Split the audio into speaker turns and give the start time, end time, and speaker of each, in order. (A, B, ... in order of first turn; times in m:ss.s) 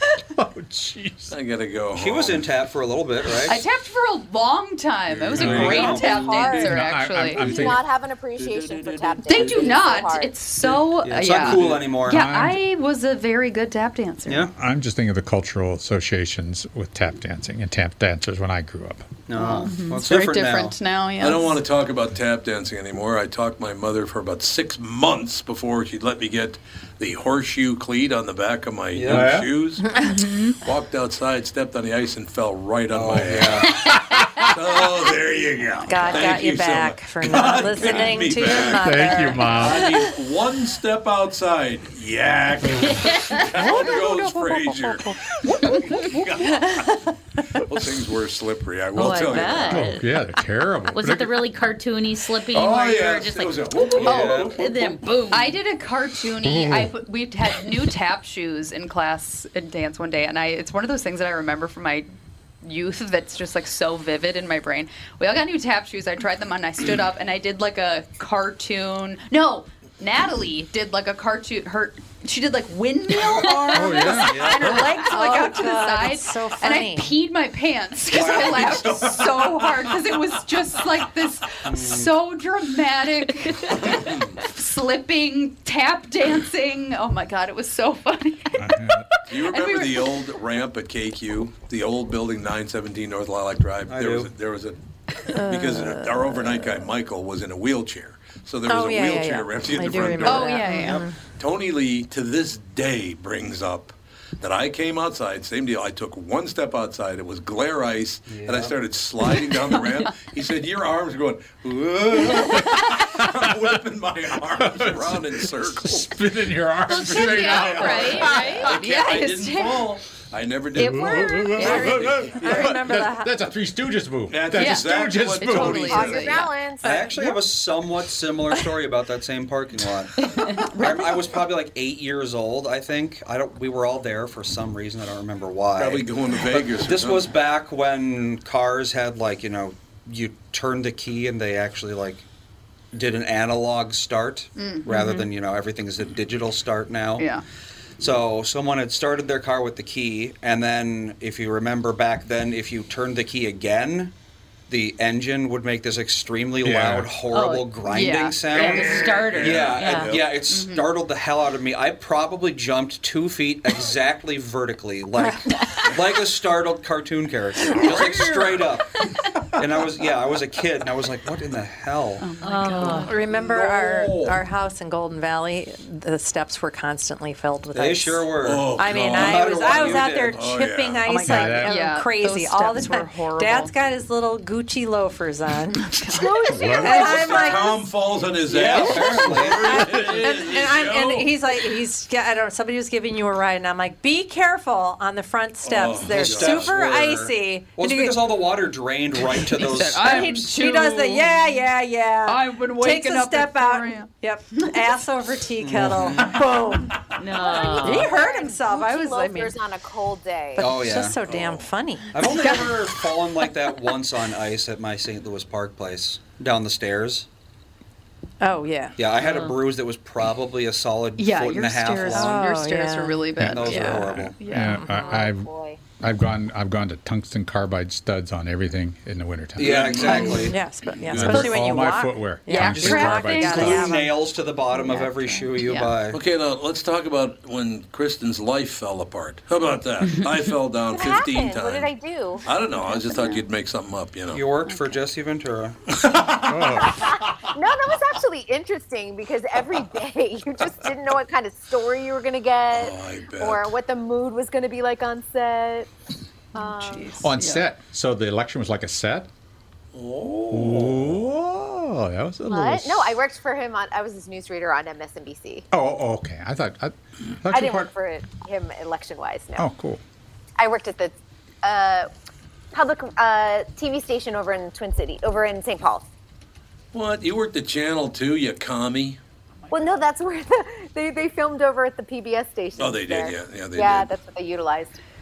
0:00.3-0:01.3 A
0:01.3-0:02.5 B
0:01.9-0:03.6 C
0:03.4-0:07.7 D
0:05.1-0:06.7 B
0:05.4-0:06.2 C
0:05.7-0:06.8 E
0:06.5-0:07.8 A
0:07.4-0:10.3 E
0:08.4-0:09.7 B
0:09.2-0:14.5 D
0:10.6-0:12.2 C
0:11.4-0:11.9 B
0:12.1-0:12.6 A
0:14.2-0:14.5 C
0:14.6-0:19.2 A
0:19.3-0:20.8 C
0:19.3-0:21.6 D
0:19.7-0:20.0 F
0:21.2-0:30.0 B
0:28.9-0:29.4 C
0:29.1-0:29.5 A
0:30.2-0:30.5 F
0:30.6-0:46.9 B
0:32.9-0:33.8 C
0:34.1-0:34.5 A
0:35.8-0:36.2 D
0:35.9-0:39.8 G
0:38.7-0:39.9 A
0:43.5-0:45.2 G
0:47.5-0:49.9 B
0:49.0-0:50.0 F
0:49.0-0:49.8 G
0:49.7-0:51.4 A
0:50.9-0:55.6 F
0:52.5-0:55.1 B
0:54.0-0:54.6 C
0:54.0-0:54.4 D
0:55.3-1:02.1 D
0:56.4-0:56.9 A
1:02.6-1:30.2 D
1:13.7-1:14.9 A
1:14.0-1:15.0 C
1:14.9-1:17.2 G
1:18.1-1:20.0 B
1:21.6-1:22.1 C
1:23.7-1:24.2 B
1:28.6-1:29.0 A
1:29.3-1:34.8 B
1:33.9-1:34.3 C
1:35.3-1:40.6 B
1:35.3-1:36.7 G
1:38.7-1:41.1 G
1:40.2-1:41.1 D
1:41.4-1:56.2 B
1:48.3-1:48.8 C
1:54.6-1:58.7 A
1:56.8-2:00.0 D
1:57.0-2:02.8 B
2:00.7-2:06.2 A
2:01.5-2:01.8 D
2:01.5-2:03.3 G
2:04.3-2:06.4 B
2:04.5-2:06.7 D
2:05.6-2:07.0 E
2:06.8-2:22.2 C
2:10.8-2:11.2 D
2:15.8-2:17.3 B
2:22.9-2:27.3 C
2:24.5-2:25.3 D
2:27.2-2:27.4 D
2:28.0-2:34.1 C
2:34.7-2:48.9 C
2:36.6-2:37.2 A
2:37.3-2:37.8 F
2:37.8-2:39.2 D
2:38.5-2:40.1 F
2:38.8-2:40.3 B
2:40.5-2:40.9 D
2:47.7-2:48.7 B
2:49.6-2:52.2 C
2:52.2-2:53.2 D
2:52.4-2:53.1 F
2:52.8-3:07.8 G
2:53.2-2:54.4 B
2:57.7-3:00.5 C
2:58.4-3:01.1 B
3:01.1-3:03.7 D
3:01.1-3:01.8 A
3:05.8-3:07.5 D
3:06.5-3:07.3 A
3:06.8-3:11.4 B
3:08.4-3:10.1 C
3:08.7-3:18.2 G
3:15.6-3:16.8 B
3:16.1-3:20.6 C
3:19.4-3:21.7 D
3:20.0-3:27.0 G
3:22.2-3:24.9 D
3:25.6-3:26.4 C
3:27.2-3:28.1 F
3:27.5-3:27.8 D
3:27.7-3:29.6 G
3:27.8-3:30.7 E
3:30.6-3:32.1 G
3:30.6-3:31.2 C
3:31.2-3:31.7 B
3:32.1-3:37.2 C
3:32.3-3:32.8 D
3:38.4-3:39.0 G
3:39.0-3:42.5 C
3:41.2-3:44.8 D
3:42.0-3:44.9 G
3:43.4-3:44.4 C
3:43.4-3:43.7 A
3:44.4-3:45.5 A
3:44.8-3:45.8 E
3:46.0-3:50.4 A
3:49.6-3:50.6 C
3:49.6-3:51.5 B
3:50.0-3:54.2 G
3:51.1-3:53.9 A
3:52.4-3:53.9 D
3:53.5-3:56.2 C
3:54.7-3:56.0 D
3:56.1-4:01.9 B
4:00.9-4:02.4 E
4:02.4-4:04.4 B
4:02.9-4:03.4 D
4:04.3-4:05.8 C
4:04.6-4:05.0 D
4:05.9-4:07.0 B
4:06.3-4:07.2 A
4:06.9-4:15.9 E
4:12.7-4:13.7 B
4:16.5-4:17.2 E
4:16.5-4:17.7 D
4:17.2-4:19.3 A
4:19.9-4:21.3 B
4:20.5-4:23.2 A
4:22.5-4:25.7 E
4:25.7-4:27.9 A
4:27.5-4:29.7 E
4:29.6-4:30.0 A
4:30.6-4:32.1 E
4:32.7-4:36.0 E
4:36.9-4:39.2 B
4:39.7-4:45.0 E
4:42.8-4:44.1 B